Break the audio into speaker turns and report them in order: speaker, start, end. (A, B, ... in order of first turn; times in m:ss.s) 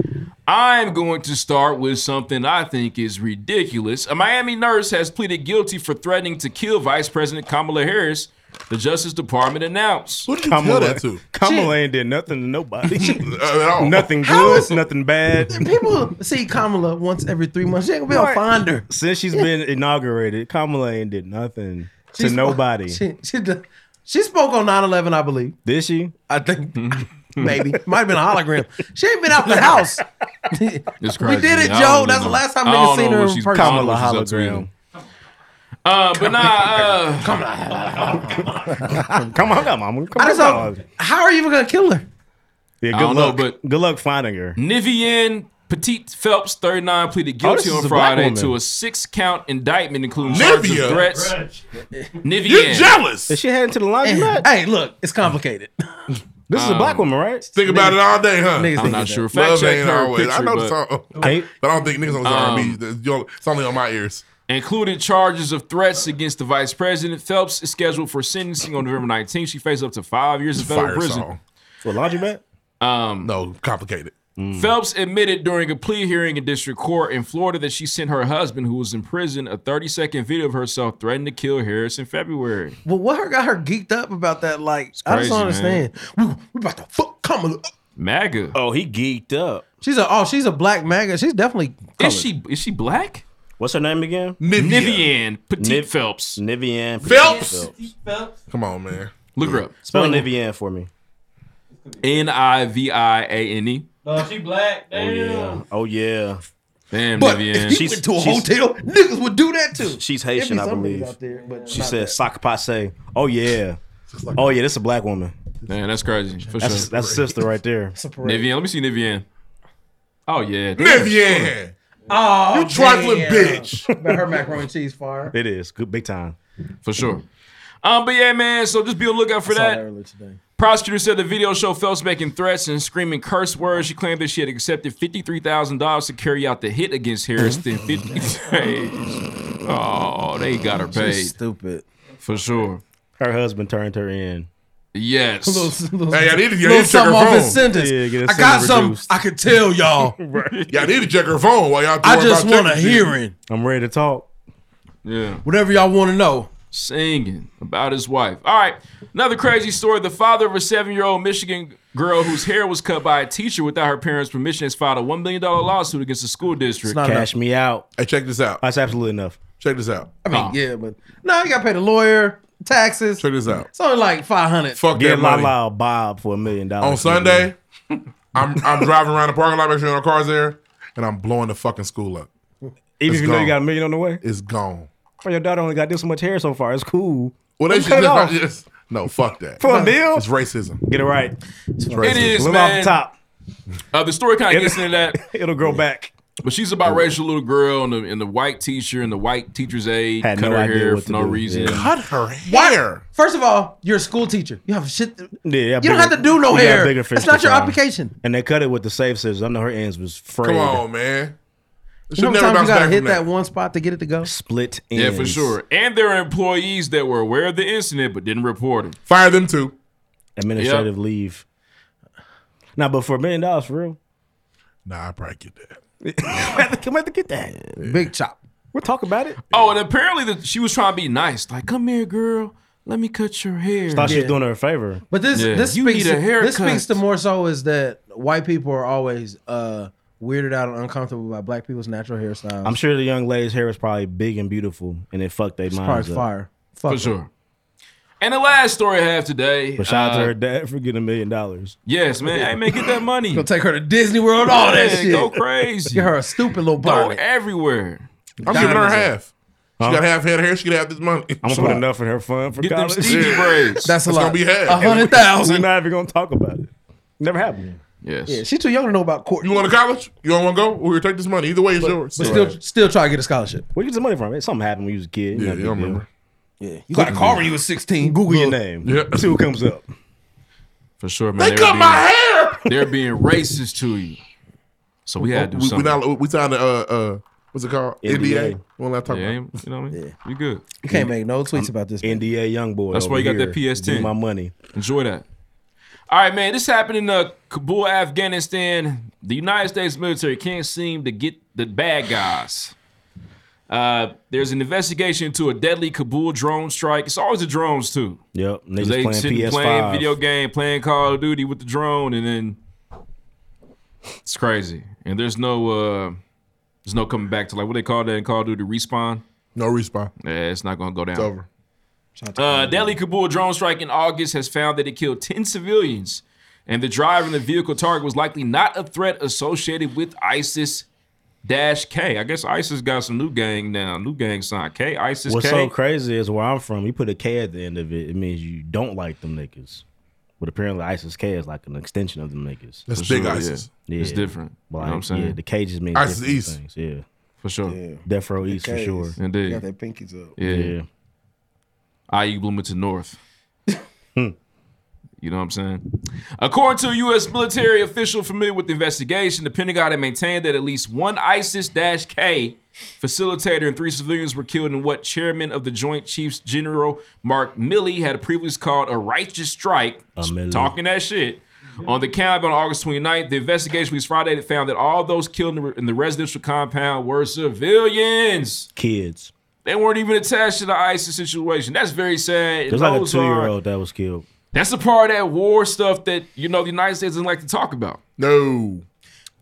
0:00.5-0:10.3 A
0:10.2-0:11.2 B
0:10.5-0:15.7 C
0:11.4-0:11.7 D
0:13.0-0:14.1 B
0:14.2-0:14.8 D
0:15.5-0:19.5 D
0:18.1-0:23.0 C
0:22.1-0:25.6 D
0:25.6-0:26.1 C
0:26.3-0:33.9 D
0:26.8-0:27.0 A
0:29.5-0:29.8 C
0:31.0-0:34.7 A
0:33.5-0:34.7 C
0:35.8-0:37.4 A
0:37.2-0:39.2 D
0:38.8-0:40.8 C
0:40.2-0:42.0 D
0:42.8-0:44.6 C
0:42.9-0:43.6 A
0:44.6-0:51.4 A
0:47.4-0:48.6 C
0:50.2-0:51.6 E
0:50.3-0:51.0 B
0:52.2-0:53.0 A
0:52.4-0:53.4 B
0:53.3-0:54.5 C
0:54.0-0:55.7 D
0:56.5-0:57.4 C
0:56.5-0:57.1 A
0:57.5-1:04.2 B
0:57.6-0:59.2 D
0:58.8-1:00.7 A
1:01.2-1:01.4 E
1:01.2-1:01.5 C
1:02.2-1:02.8 A
1:04.5-1:11.3 A
1:10.6-1:11.4 B
1:11.8-1:12.4 C
1:12.8-1:13.3 A
1:13.2-1:14.1 B
1:14.4-1:14.7 C
1:14.5-1:22.8 A
1:22.8-1:27.7 D
1:25.0-1:25.8 A
1:28.0-1:28.6 A
1:28.5-1:29.6 C
1:29.8-1:32.2 D
1:32.0-1:33.2 A
1:33.6-1:34.4 C
1:34.4-1:35.0 B
1:34.5-1:36.4 A
1:35.6-1:37.7 C
1:37.0-1:37.7 B
1:37.0-1:38.4 E
1:38.5-1:39.5 B
1:39.3-1:40.2 A
1:39.8-1:40.9 C
1:41.7-1:42.3 E
1:42.0-1:43.9 A
1:44.0-1:45.6 E
1:44.9-1:46.4 C
1:46.9-1:47.9 A
1:47.2-1:52.2 D
1:47.7-1:48.5 C
1:49.8-1:51.1 C
1:51.3-1:51.8 E
1:51.7-1:53.8 C
1:54.1-1:54.5 B
1:54.3-1:55.3 C
1:55.7-1:56.9 A
1:56.4-1:57.4 B
1:56.6-1:57.9 C
1:57.9-1:58.5 D
1:58.2-1:59.2 A
2:00.3-2:01.5 A
2:00.8-2:01.7 B
2:02.1-2:05.3 D
2:02.5-2:03.8 B
2:05.3-2:06.4 C
2:06.8-2:07.2 A
2:07.8-2:09.8 A
2:09.5-2:10.4 D
2:10.6-2:21.3 A
2:20.8-2:21.8 D
2:22.2-2:22.8 A
2:23.2-2:24.5 C
2:24.9-2:25.8 A
2:25.4-2:30.2 D
2:26.1-2:27.6 B
2:27.6-2:29.1 C
2:30.0-2:30.6 C
2:30.7-2:33.1 B
2:32.0-2:33.3 D
2:33.5-2:34.3 C
2:35.0-2:35.4 A
2:35.4-2:36.5 D
2:36.7-2:47.0 A
2:46.8-2:47.3 D
2:47.0-2:47.9 C
2:48.0-2:48.6 B
2:48.6-2:49.4 C
2:49.6-2:50.1 B
2:50.2-2:54.8 D
2:50.3-2:50.6 A
2:53.2-2:53.7 B
2:54.8-2:55.5 B
2:54.9-2:57.5 C
2:56.8-2:57.6 B
2:58.3-3:02.3 B
3:03.0-3:04.2 C
3:03.1-3:03.6 B
3:04.2-3:04.9 B
3:05.2-3:08.4 C
3:07.6-3:10.8 B
3:09.6-3:10.2 C
3:09.6-3:10.0 D
3:10.8-3:11.4 C
3:11.9-3:13.1 C
3:11.9-3:12.4 B
3:12.0-3:13.0 A
3:13.9-3:15.2 A
3:14.5-3:16.1 C
3:16.4-3:21.9 A
3:20.2-3:21.9 C
3:21.6-3:23.0 B
3:22.5-3:28.1 D
3:25.4-3:30.8 C
3:30.4-3:31.3 B
3:32.1-3:33.2 B
3:32.2-3:34.3 D
3:34.2-3:35.6 C
3:34.9-3:39.0 A
3:39.1-3:39.7 B
3:40.4-3:41.4 C
3:40.6-3:40.9 A
3:42.8-3:44.0 C
3:44.8-3:45.8 B
3:46.0-3:47.8 C
3:47.8-3:48.4 D
3:48.7-3:49.4 C
3:49.5-3:54.2 A
3:53.9-3:55.0 C
3:54.0-3:54.4 D
3:55.1-4:02.8 D
3:55.3-3:57.0 A
4:02.6-4:06.2 C
4:05.7-4:07.1 D
4:06.9-4:07.3 A
4:08.2-4:10.3 A
4:09.8-4:11.8 C
4:11.8-4:13.5 A
4:13.3-4:15.3 D
4:14.5-4:16.1 A
4:15.9-4:17.2 D
4:16.8-4:18.1 A
4:18.4-4:19.3 B
4:18.5-4:18.8 C
4:18.5-4:19.1 D
4:19.8-4:20.0 C
4:19.8-4:21.8 B
4:21.4-4:23.6 C
4:21.5-4:21.8 A
4:22.6-4:23.9 A
4:23.1-4:25.2 B
4:23.8-4:25.7 D
4:24.8-4:27.7 C
4:28.0-4:28.4 A
4:28.3-4:29.7 D
4:29.4-4:32.5 B
4:32.1-4:33.6 D
4:32.2-4:32.5 C
4:33.7-4:36.0 C
4:35.3-4:36.1 B
4:36.6-4:38.6 D
4:36.9-4:37.4 C
4:38.0-4:39.9 C
4:38.8-4:39.3 B
4:41.0-4:42.1 A
4:41.4-4:42.6 B
4:42.6-4:44.2 A
4:45.0-4:46.0 A
4:45.2-4:49.4 B
4:48.0-4:48.6 C
4:49.1-4:50.6 A
4:50.8-4:52.2 D
4:50.8-4:54.5 C
4:52.9-4:54.1 A
4:54.7-4:55.2 A
4:56.1-5:02.7 A
5:03.7-5:08.2 A
5:08.3-5:10.2 C
5:08.8-5:12.6 A
5:14.2-5:16.2 A
5:16.8-5:19.2 A
5:19.6-5:20.1 B
5:20.2-5:21.3 A
5:21.1-5:21.4 B
5:22.2-5:23.0 D
5:22.4-5:30.8 A
5:31.4-5:35.7 A
5:35.3-5:39.8 C
5:40.4-5:42.9 C
5:42.9-5:43.7 B
5:42.9-5:45.4 A
5:43.9-5:47.0 C
5:45.9-5:46.6 B
5:47.4-5:47.8 A
5:47.7-5:50.3 D
5:48.0-5:49.2 C
5:49.2-5:49.6 A
5:50.4-5:50.7 A
5:50.4-5:50.8 C
5:52.1-5:53.2 A
5:55.2-5:55.8 A
5:56.4-6:18.7 A
6:10.2-6:10.7 C
6:18.8-6:19.3 C
6:19.6-6:23.5 A
6:22.7-6:24.2 C
6:24.5-6:28.0 A
6:28.2-6:28.8 B